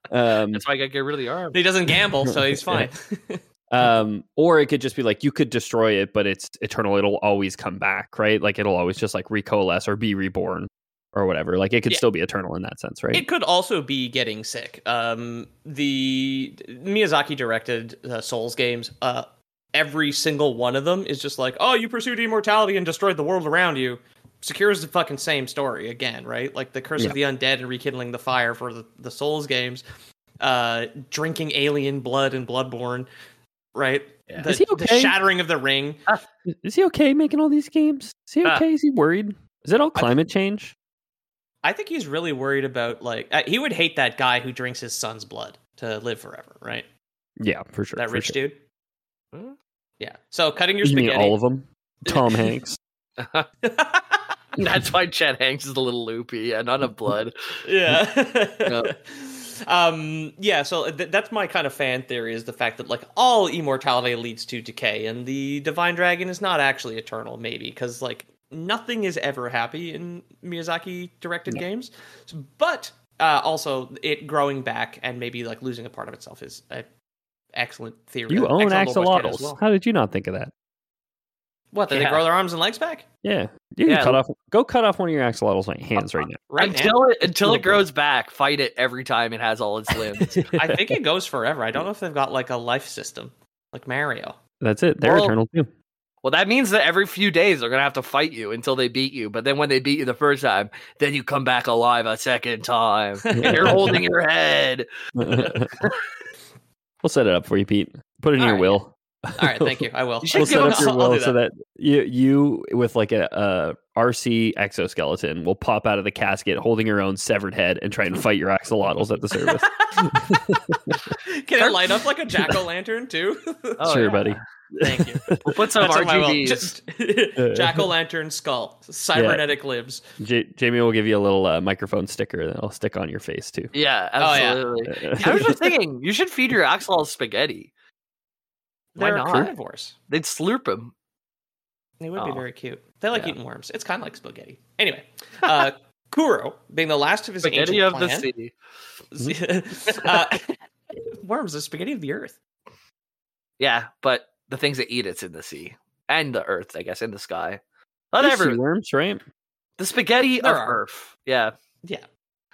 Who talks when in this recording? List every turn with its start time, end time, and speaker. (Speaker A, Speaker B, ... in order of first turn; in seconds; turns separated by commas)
Speaker A: 0.1-0.6, Speaker B: 0.5-1.6, Speaker C: 1.5-3.4, Speaker A: 2.2-2.9, Speaker A: 3.7-13.2, Speaker C: 13.1-29.8, Speaker C: 30.4-33.1, Speaker C: 33.7-36.0, Speaker A: 34.4-35.1, Speaker A: 36.5-40.7, Speaker C: 41.6-46.9, Speaker A: 47.4-48.4, Speaker C: 48.0-48.6, Speaker C: 50.0-51.4, Speaker A: 50.8-52.8, Speaker C: 52.1-52.5, Speaker B: 53.2-53.5, Speaker C: 53.6-54.3, Speaker B: 54.6-57.3, Speaker C: 57.6-76.8, Speaker B: 58.7-58.9, Speaker C: 77.5-79.6, Speaker A: 78.3-80.5, Speaker C: 81.7-83.0, Speaker B: 81.9-82.2, Speaker A: 83.2-86.4, Speaker B: 83.8-84.2, Speaker C: 86.4-87.0, Speaker B: 86.6-90.5, Speaker A: 87.2-87.8, Speaker A: 90.5-90.9, Speaker C: 90.5-94.4, Speaker A: 94.6-95.7, Speaker B: 95.0-95.4, Speaker B: 96.2-104.9, Speaker C: 103.3-104.0, Speaker A: 103.3-104.0, Speaker A: 105.2-105.7, Speaker A: 107.0-121.0, Speaker C: 108.4-108.8, Speaker C: 109.4-111.4, Speaker B: 110.2-110.9, Speaker C: 119.6-120.0, Speaker C: 121.3-124.2, Speaker B: 123.8-124.4, Speaker A: 123.8-125.6, Speaker C: 124.8-125.2, Speaker B: 125.4-126.7, Speaker C: 125.8-130.0, Speaker A: 127.4-127.9, Speaker A: 129.1-129.5, Speaker A: 130.2-133.7, Speaker B: 133.7-137.7, Speaker C: 134.2-134.7, Speaker A: 134.9-135.6, Speaker C: 138.9-139.9, Speaker B: 139.0-139.5, Speaker B: 140.1-140.9, Speaker C: 142.0-148.3, Speaker B: 142.2-142.4, Speaker B: 147.4-148.5, Speaker C: 149.1-150.6, Speaker C: 151.2-152.4, Speaker B: 153.6-157.6, Speaker B: 158.1-158.6, Speaker A: 158.2-159.2, Speaker B: 159.8-161.5, Speaker C: 160.4-160.8